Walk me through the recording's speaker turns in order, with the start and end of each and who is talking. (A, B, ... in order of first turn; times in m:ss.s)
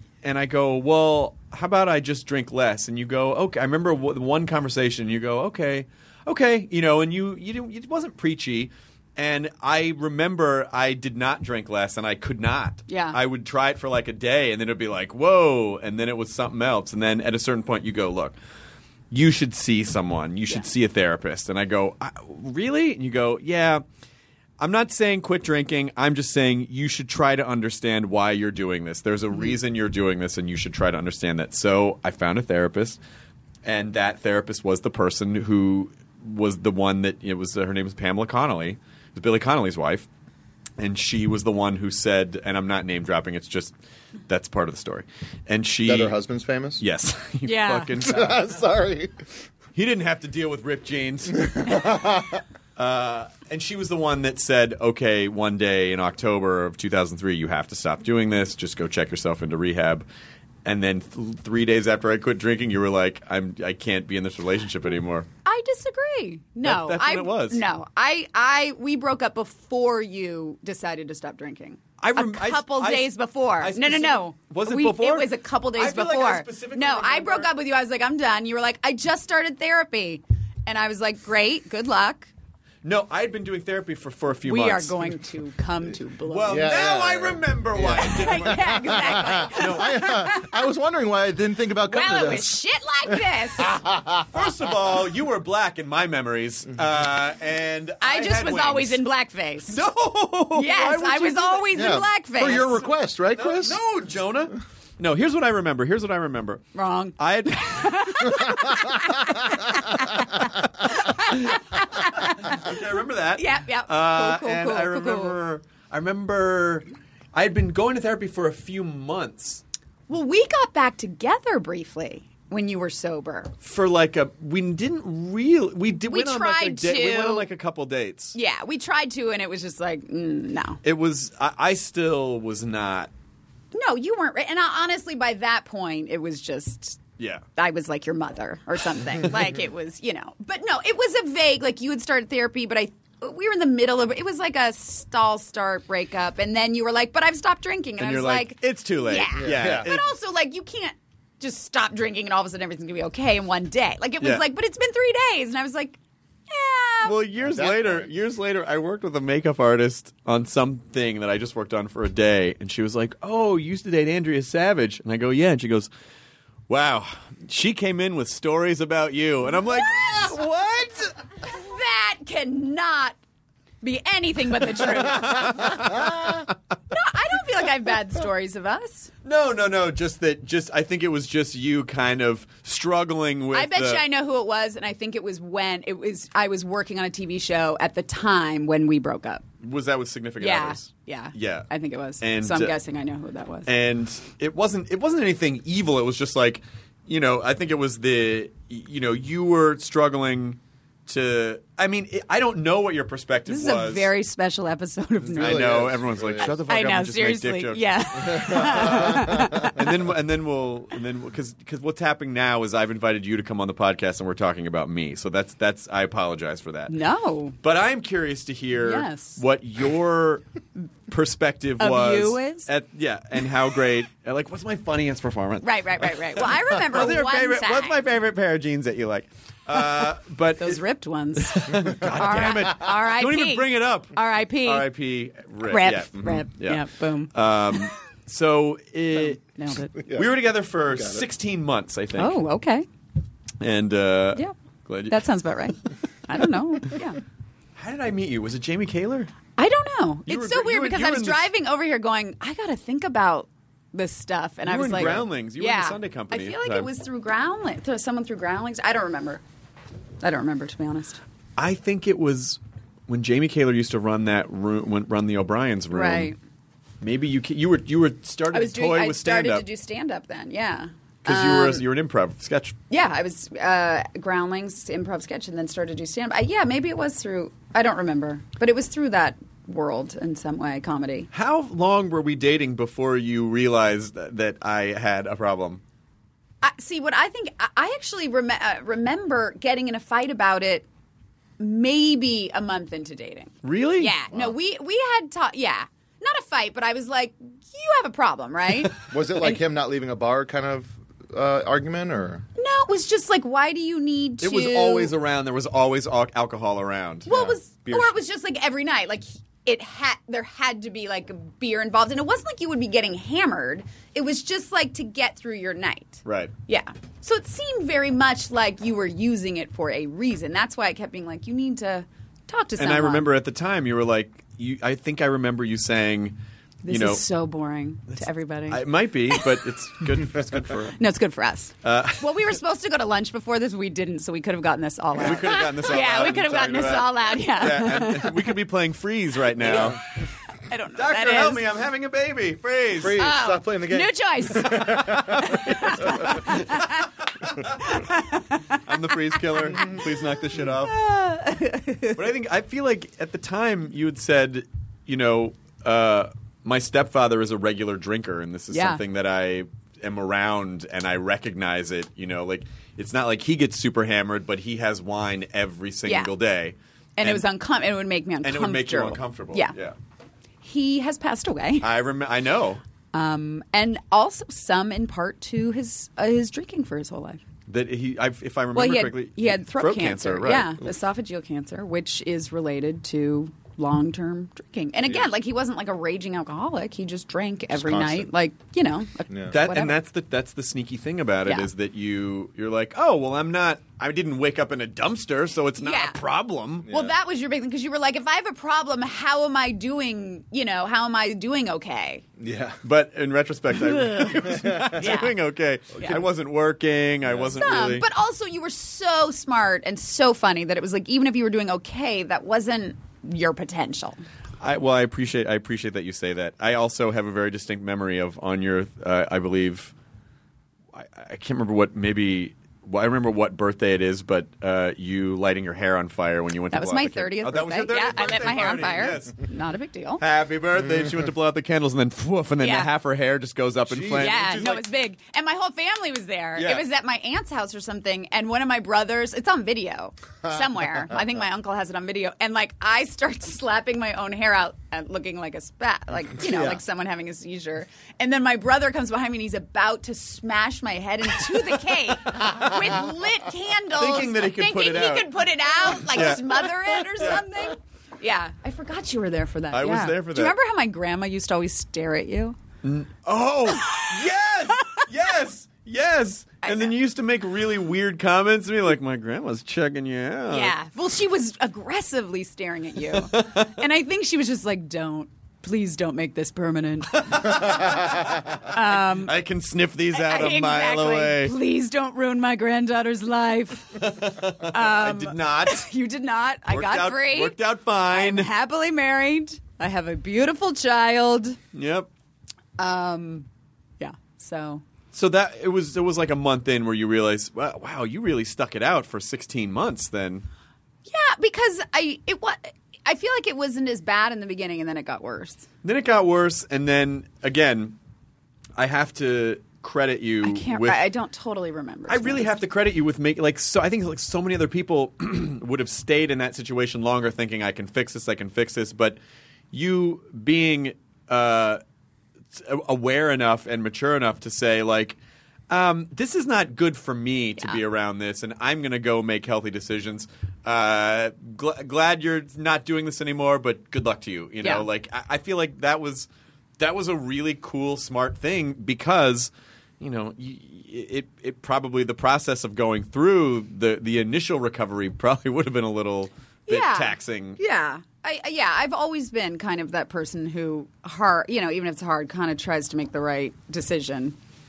0:00.2-0:18.4 A
0:12.9-0:13.2 B
0:19.1-0:23.8 A
0:24.6-0:33.0 A
0:33.6-0:40.1 A
0:40.8-0:43.7 A
0:44.3-0:46.2 A
0:45.9-0:46.8 C
0:46.8-0:48.5 A
0:47.4-0:47.9 B
0:48.0-0:49.1 C
0:49.8-0:51.6 A
0:51.5-0:52.4 C
0:52.8-1:00.0 A
1:00.6-1:05.3 A
1:05.4-1:22.3 B
1:06.6-1:07.6 A
1:12.0-1:17.5 A
1:22.8-1:24.9 A
1:24.4-1:26.7 B
1:26.3-1:30.2 A
1:26.5-1:32.6 C
1:28.0-1:30.6 B
1:31.9-1:33.8 B
1:33.6-1:34.5 C
1:34.3-1:39.0 A
1:38.0-1:39.8 B
1:39.7-1:41.8 A
1:40.5-1:42.8 B
1:41.8-1:43.8 C
1:43.3-1:46.6 A
1:46.7-1:52.8 B
1:47.2-1:48.3 A
1:51.3-1:59.6 A
1:53.4-1:55.4 B
2:00.1-2:03.5 B
2:03.6-2:08.4 A
2:06.1-2:07.5 B
2:08.3-2:10.8 B
2:10.8-2:13.1 A
2:13.7-2:17.0 B
2:17.2-2:17.4 A
2:17.6-2:37.2 B
2:28.0-2:30.1 A
2:29.4-2:29.9 C
2:37.0-2:45.9 A
2:37.4-2:38.1 C
2:46.7-2:51.1 A
2:49.7-2:50.3 B
2:51.4-2:53.2 B
2:53.8-2:55.8 B
2:55.1-2:56.3 A
2:56.9-2:59.1 B
2:59.2-3:04.0 A
3:03.5-3:09.4 B
3:09.6-3:11.7 A
3:10.4-3:13.7 B
3:12.2-3:12.8 A
3:13.7-3:24.1 A
3:23.5-3:25.8 B
3:25.3-3:26.6 C
3:25.4-3:37.0 A
3:26.7-3:29.9 B
3:28.2-3:29.7 C
3:36.9-3:37.6 B
3:37.6-3:40.4 A
3:38.8-3:39.4 B
3:41.1-3:50.8 A
3:41.8-3:42.7 B
3:45.6-3:48.0 B
3:50.6-3:54.9 B
3:51.4-3:59.4 A
3:55.6-3:57.8 B
3:59.6-3:59.9 B
4:00.0-4:00.4 C
4:00.1-4:02.4 A
4:00.9-4:01.3 C
4:02.2-4:02.9 B
4:03.6-4:05.2 A
4:05.1-4:07.2 B
4:07.8-4:09.3 A
4:09.6-4:19.4 B
4:10.3-4:11.5 A
4:14.6-4:16.9 A
4:20.2-4:21.2 B
4:21.6-4:26.3 A
4:25.9-4:26.4 B
4:27.0-4:29.7 A
4:28.5-4:31.8 B
4:31.2-4:32.8 A
4:32.9-4:41.3 B
4:41.3-4:45.8 A
4:46.6-4:50.8 B
4:51.6-4:59.6 B
4:53.6-4:54.1 A
4:59.1-5:02.4 C
5:02.6-5:05.1 B
5:04.4-5:07.3 A
5:07.3-5:08.1 C
5:07.3-5:23.3 B
5:16.2-5:16.5 A
5:22.8-5:26.4 A
5:26.8-5:29.4 B
5:26.9-5:27.2 A
5:28.1-5:31.0 A
5:31.0-5:38.5 B
5:31.8-5:32.3 A
5:35.2-5:40.0 A
5:35.3-5:35.6 C
5:39.6-5:40.0 C
5:40.7-5:41.7 B
5:41.0-5:43.2 A
5:43.0-5:46.5 C
5:43.2-5:47.1 B
5:44.8-5:46.6 A
5:47.5-5:47.8 A
5:47.8-5:48.8 B
5:48.8-5:50.9 A
5:49.4-5:50.1 B
5:50.8-5:52.2 B
5:52.2-6:07.5 A
5:58.7-5:59.0 B
6:06.1-6:06.3 B
6:07.2-6:09.7 B
6:08.4-6:09.9 A
6:10.6-6:11.9 B
6:11.8-6:12.8 A
6:13.1-6:17.4 B
6:17.7-6:20.8 A
6:18.7-6:30.0 B
6:27.7-6:28.3 C
6:29.5-6:36.9 A
6:35.8-6:36.2 B
6:36.8-6:37.2 C
6:36.9-6:42.2 B
6:42.4-6:42.8 C
6:42.8-6:48.1 A
6:44.4-6:45.1 C
6:45.0-6:45.4 B
6:47.2-6:47.8 C
6:47.6-6:54.2 B
6:54.6-6:59.9 A
7:00.9-7:09.4 A
7:06.7-7:10.2 B
7:10.2-7:14.8 A
7:10.8-7:11.3 C
7:12.6-7:12.9 B
7:13.9-7:14.4 C
7:14.2-7:42.6 B
7:16.6-7:16.8 A
7:26.4-7:26.8 C
7:34.0-7:35.4 A
7:35.9-7:36.7 A
7:39.7-7:40.6 A
7:42.8-7:50.8 A
7:46.6-7:46.9 B
7:50.5-7:58.1 B
7:53.1-7:53.7 A
7:57.2-8:01.5 A
7:58.6-7:59.4 B
8:00.1-8:04.1 B
8:04.0-8:05.9 A
8:04.6-8:07.6 B
8:06.7-8:08.5 A
8:08.1-8:11.6 B
8:11.7-8:12.1 A
8:12.8-8:13.5 B
8:14.0-8:14.8 B
8:15.1-8:20.5 A
8:21.1-8:25.7 B
8:25.8-8:28.0 A
8:28.8-8:31.0 A
8:30.4-8:32.5 B
8:32.1-8:39.2 A
8:39.7-8:41.8 A
8:42.5-8:45.2 A
8:45.7-8:56.3 A
8:56.8-9:07.6 A
9:06.7-9:14.4 B